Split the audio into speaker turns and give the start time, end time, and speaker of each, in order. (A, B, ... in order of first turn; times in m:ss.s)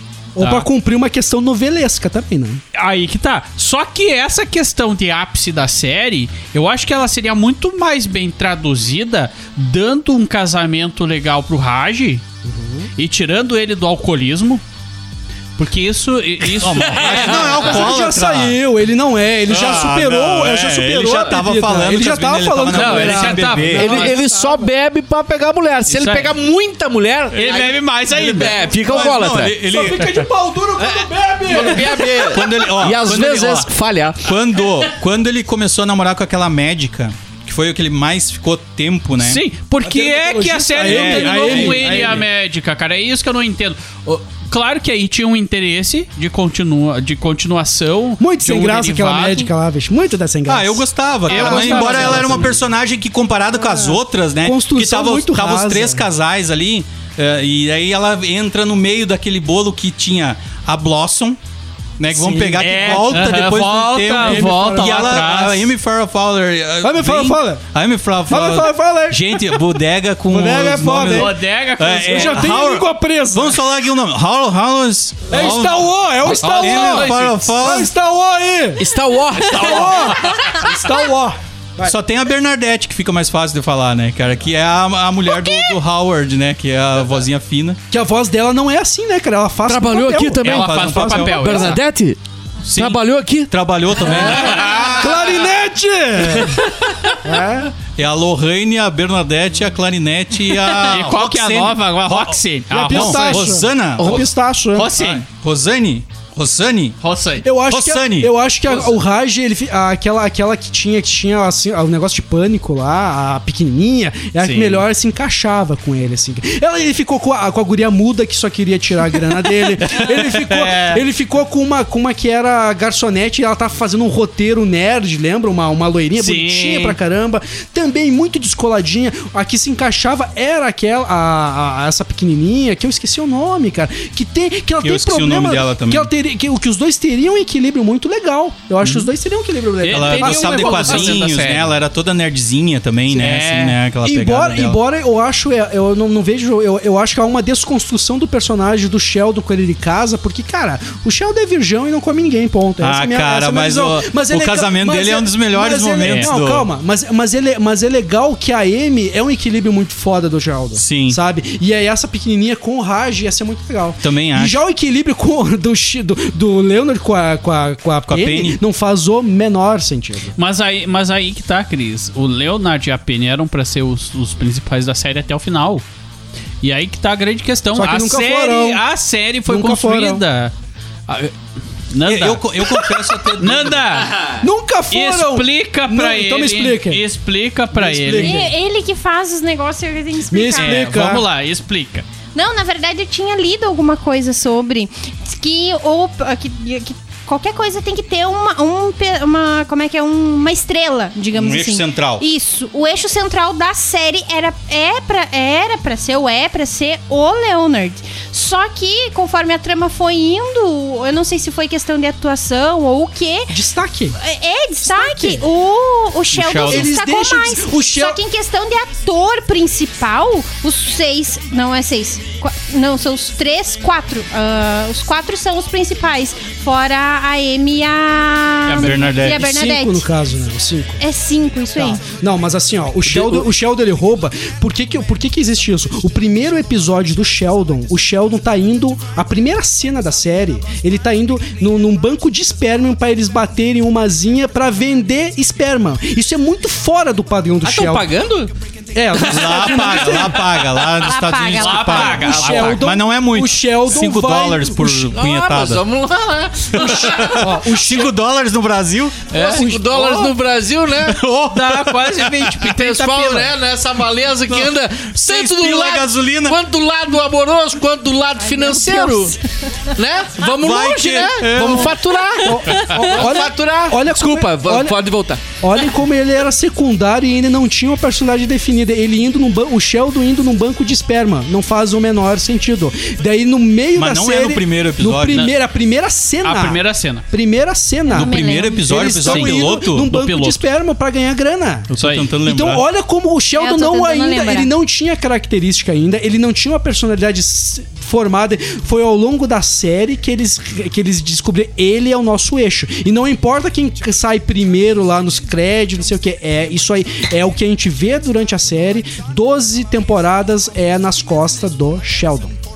0:00.4-0:02.6 A
0:00.4-0:00.6 B
0:02.7-0:12.2 B
0:12.4-0:12.9 A
0:13.0-0:14.6 B
0:15.6-0:17.8 B
0:16.5-0:18.6 C
0:16.7-0:17.6 D
0:17.1-0:24.2 A
0:19.5-0:24.0 C
0:22.7-0:24.2 B
0:23.8-0:29.6 D
0:25.9-0:26.3 B
0:27.3-0:28.6 B
0:28.1-0:30.2 C
0:29.6-0:32.3 A
0:30.8-0:34.3 D
0:32.1-0:39.4 C
0:39.2-0:49.5 B
0:39.8-0:42.2 A
0:40.8-0:42.2 C
0:48.2-0:52.6 A
0:50.5-1:01.4 C
0:51.3-0:52.6 B
0:53.7-0:56.0 A
1:02.0-1:17.9 C
1:02.1-1:03.3 A
1:02.6-1:05.7 B
1:04.2-1:05.4 A
1:06.8-1:07.6 A
1:08.3-1:11.4 A
1:11.1-1:12.6 B
1:12.0-1:13.6 A
1:15.3-1:18.9 A
1:16.3-1:17.0 D
1:16.4-1:17.5 B
1:18.8-1:20.2 D
1:19.4-1:21.9 A
1:21.8-1:27.8 C
1:25.2-1:25.7 E
1:27.9-1:31.7 A
1:29.6-1:32.2 D
1:30.4-1:31.8 B
1:30.4-1:31.8 C
1:32.6-1:35.5 C
1:32.7-1:33.5 D
1:34.0-1:36.6 A
1:34.3-1:34.8 B
1:36.2-1:36.6 C
1:37.2-1:37.7 A
1:38.0-1:44.3 C
1:40.5-1:43.5 B
1:42.7-1:44.9 A
1:44.7-1:45.2 B
1:44.9-1:47.0 C
1:47.0-1:47.4 B
1:47.4-2:21.2 A
1:47.7-1:48.3 C
1:54.4-1:54.8 B
1:59.8-2:01.0 C
2:06.2-2:07.0 B
2:14.8-2:16.1 C
2:18.8-2:19.1 B
2:19.8-2:21.7 B
2:19.9-2:24.8 C
2:23.1-2:23.8 B
2:24.0-2:50.4 A
2:32.8-2:36.7 C
2:36.0-2:36.3 B
2:40.7-2:41.2 C
2:44.0-2:44.6 C
2:48.1-2:48.6 C
2:50.4-2:55.8 B
2:56.6-3:00.5 B
2:57.7-2:58.8 A
2:59.5-3:00.2 A
3:01.1-3:01.3 B
3:01.9-3:04.3 B
3:02.0-3:03.9 C
3:04.4-3:07.0 A
3:04.9-3:08.4 B
3:07.7-3:08.5 A
3:08.1-3:10.9 E
3:10.3-3:11.3 A
3:10.6-3:12.0 B
3:12.3-3:33.5 E
3:21.3-3:22.2 C
3:33.5-3:34.2 A
3:34.2-3:50.0 E
3:34.8-3:35.4 A
3:36.3-3:36.9 C
3:36.6-3:38.2 A
3:48.6-3:49.4 B
3:48.8-3:49.5 C
3:49.2-3:51.0 A
3:51.0-3:52.0 E
3:51.7-4:08.1 A
4:07.6-4:08.5 D
4:08.9-4:10.7 A
4:09.2-4:15.8 C
4:10.8-4:12.2 E
4:11.6-4:12.9 B
4:12.1-4:15.1 A
4:15.1-4:17.6 D
4:16.7-4:19.3 C
4:17.3-4:18.1 A
4:19.3-4:21.3 D
4:19.3-4:20.3 B
4:21.0-4:22.7 C
4:21.5-4:23.5 B
4:22.6-4:29.4 D
4:24.5-4:26.6 C
4:28.6-4:29.7 E
4:29.9-4:35.4 D
4:30.5-4:32.0 C
4:32.4-4:35.0 A
4:32.7-4:33.2 E
4:35.6-5:12.5 A
4:43.9-4:45.5 C
4:46.4-4:47.2 B
4:48.1-4:48.9 E
4:48.1-4:50.1 C
4:49.2-4:50.6 B
4:51.9-4:52.3 B
4:51.9-4:52.8 C
4:53.6-4:54.7 E